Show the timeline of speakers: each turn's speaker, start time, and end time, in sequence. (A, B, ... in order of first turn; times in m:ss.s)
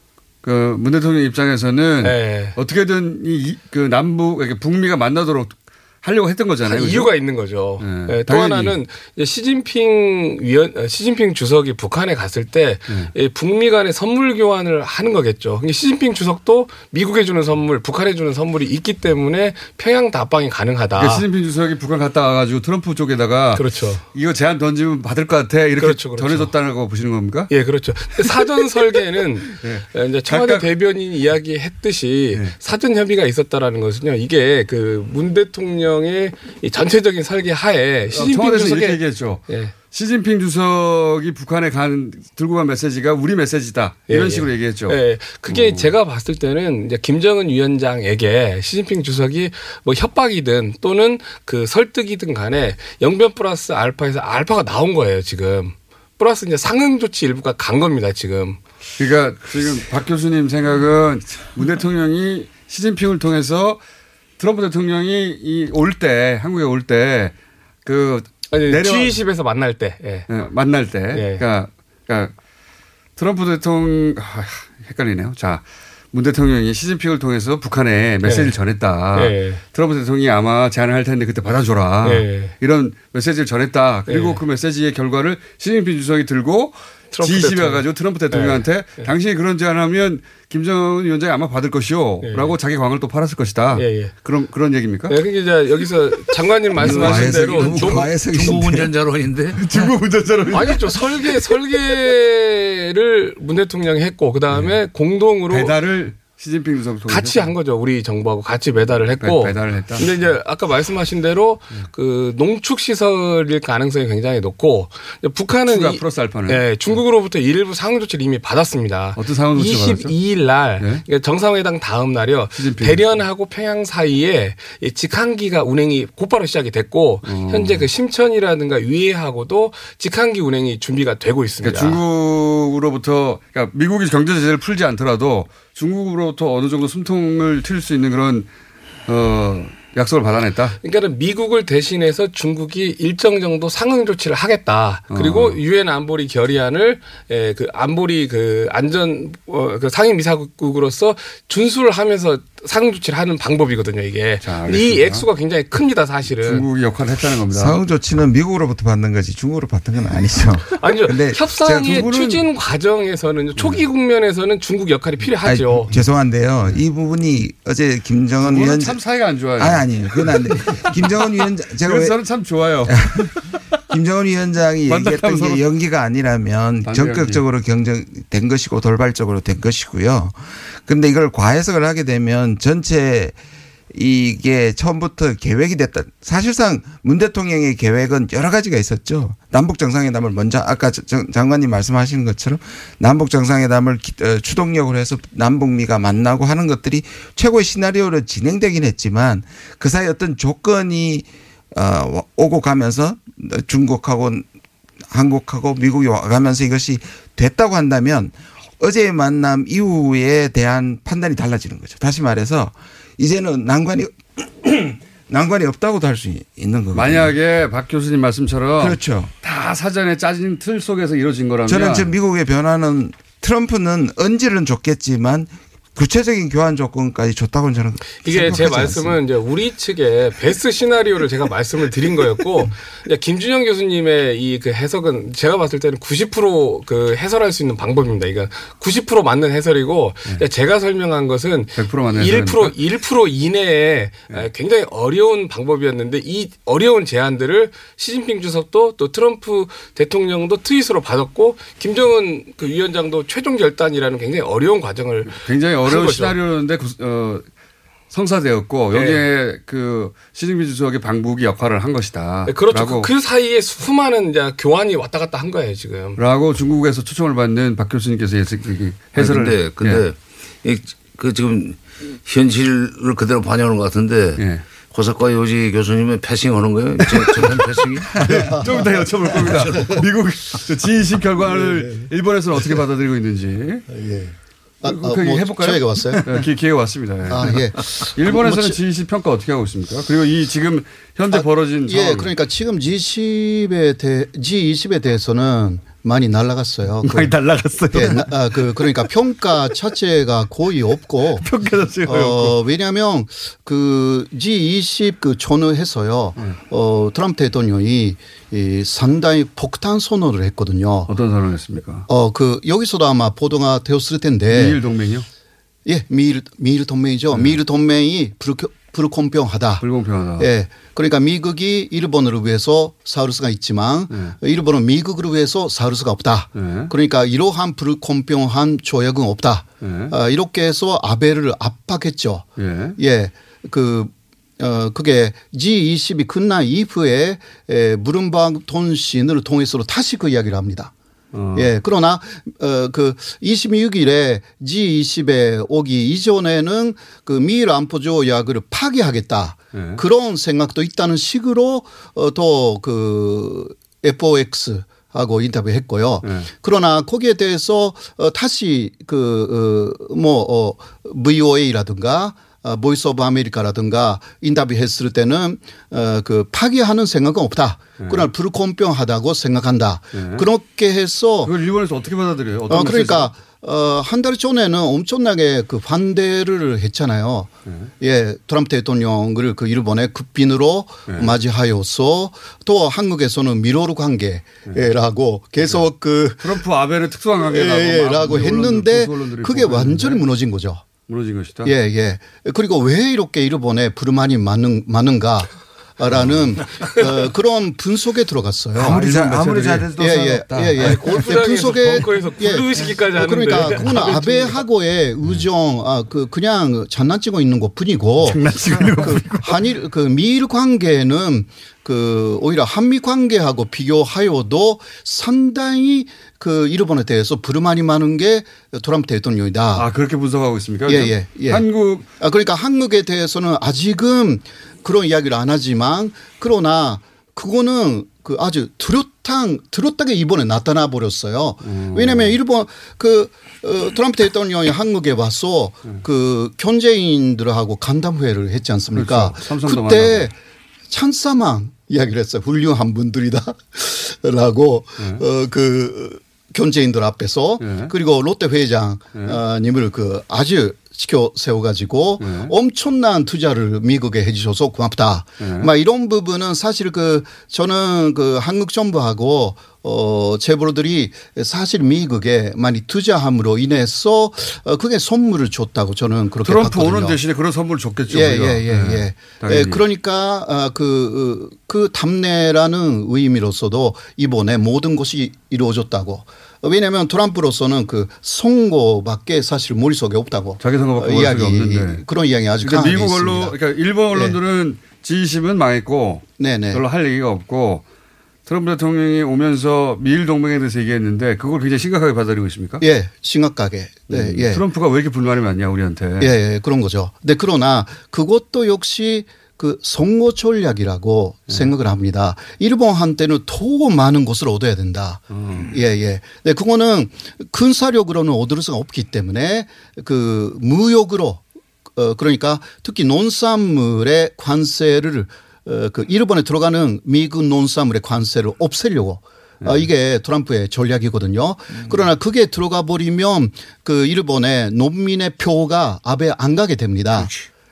0:00.4-0:07.1 A
0:02.0-0:02.6 B
0:06.7-0:21.3 B
0:07.8-0:08.8 A
0:21.0-0:27.5 A
0:23.6-0:24.0 B
0:25.8-0:26.5 B
0:27.5-0:39.7 B
0:29.6-0:30.6 A
0:38.1-0:45.9 A
0:44.1-0:58.6 B
0:59.0-1:03.8 A
1:04.4-1:09.2 A
1:08.5-1:10.3 B
1:10.3-1:12.3 A
1:11.1-1:11.4 B
1:13.2-1:35.2 A
1:18.2-1:18.6 B
1:19.1-1:19.6 B
1:22.0-1:22.5 B
1:24.1-1:24.4 B
1:27.1-1:29.1 B
1:32.2-1:32.6 B
1:33.7-1:34.1 B
1:35.1-1:38.1 B
1:36.8-1:38.9 C
1:36.8-1:38.0 A
1:38.1-1:39.6 D
1:39.6-1:40.8 A
1:40.5-1:45.8 B
1:44.5-1:44.8 A
1:45.5-1:47.5 A
1:47.1-2:12.0 B
1:49.2-1:50.1 A
1:55.7-1:56.6 A
1:59.1-2:00.1 A
2:02.6-2:03.2 A
2:07.2-2:07.9 A
2:11.6-2:18.5 A
2:19.1-2:20.8 A
2:20.8-2:36.6 B
2:25.1-2:25.6 A
2:34.4-2:35.3 A
2:36.4-2:37.8 A
2:37.5-2:42.1 C
2:40.8-2:45.9 B
2:41.7-2:42.4 A
2:43.6-2:43.8 A
2:45.4-2:49.0 C
2:48.4-2:51.0 A
2:49.6-2:52.2 C
2:51.8-2:53.4 A
2:52.9-3:03.4 C
2:54.9-2:55.6 A
2:56.8-2:57.4 A
3:03.9-3:24.5 C
3:25.1-3:37.3 C
3:36.9-3:42.1 A
3:38.8-3:39.3 C
3:41.6-3:49.2 C
3:48.2-4:16.4 B
4:01.8-4:02.7 A
4:15.3-4:17.5 A
4:18.1-4:23.1 A
4:18.9-4:19.2 B
4:22.5-4:26.2 B
4:26.2-4:30.0 A
4:29.2-4:38.2 D
4:34.4-4:34.6 A
4:37.2-4:43.9 A
4:38.5-4:39.0 E
4:39.4-4:40.1 D
4:41.4-4:42.1 E
4:43.9-4:46.5 E
4:44.8-4:52.3 A
4:47.3-4:48.8 E
4:51.3-4:57.4 E
4:57.0-4:58.9 A
4:57.9-5:01.5 E
5:01.4-5:02.6 A
5:02.0-5:11.1 E
5:11.1-5:12.1 A
5:12.1-5:14.8 E
5:14.5-5:15.3 A
5:15.9-5:19.8 E
5:17.3-5:17.6 A
5:19.8-5:20.5 A
5:20.4-5:40.9 E
5:24.1-5:24.4 A
5:26.6-5:26.9 A
5:29.8-5:30.1 A
5:32.6-5:33.0 A
5:41.3-5:41.7 A
5:41.6-6:11.5 E
5:49.7-5:50.0 A
5:56.2-5:56.5 A
6:08.0-6:08.3 A
6:10.1-6:10.5 A
6:11.4-6:13.3 A
6:12.7-6:26.6 E
6:21.1-6:21.4 A
6:26.4-6:30.2 A
6:27.4-6:30.8 E
6:31.1-6:31.8 A
6:31.6-6:39.0 E
6:36.1-6:36.4 A
6:38.8-6:41.3 C
6:38.8-6:39.9 A
6:40.0-6:59.9 E
6:40.8-6:44.6 B
6:48.2-6:49.6 A
6:59.8-7:02.0 A
7:00.9-7:01.6 E
7:02.2-7:20.3 E
7:11.6-7:12.4 A
7:18.9-7:20.3 A
7:20.9-7:47.2 E
7:27.6-7:27.9 A
7:32.2-7:32.5 A
7:35.4-7:35.7 A
7:46.4-7:49.8 A
7:48.1-8:04.4 E
8:00.6-8:02.0 A
8:02.6-8:07.8 A
8:06.4-8:06.8 E
8:08.5-8:12.8 A
8:12.8-8:14.6 E
8:14.1-8:16.3 A
8:16.2-8:31.4 E
8:25.3-8:25.7 A
8:32.0-8:47.3 E
8:39.6-8:39.9 A
8:47.1-8:47.5 D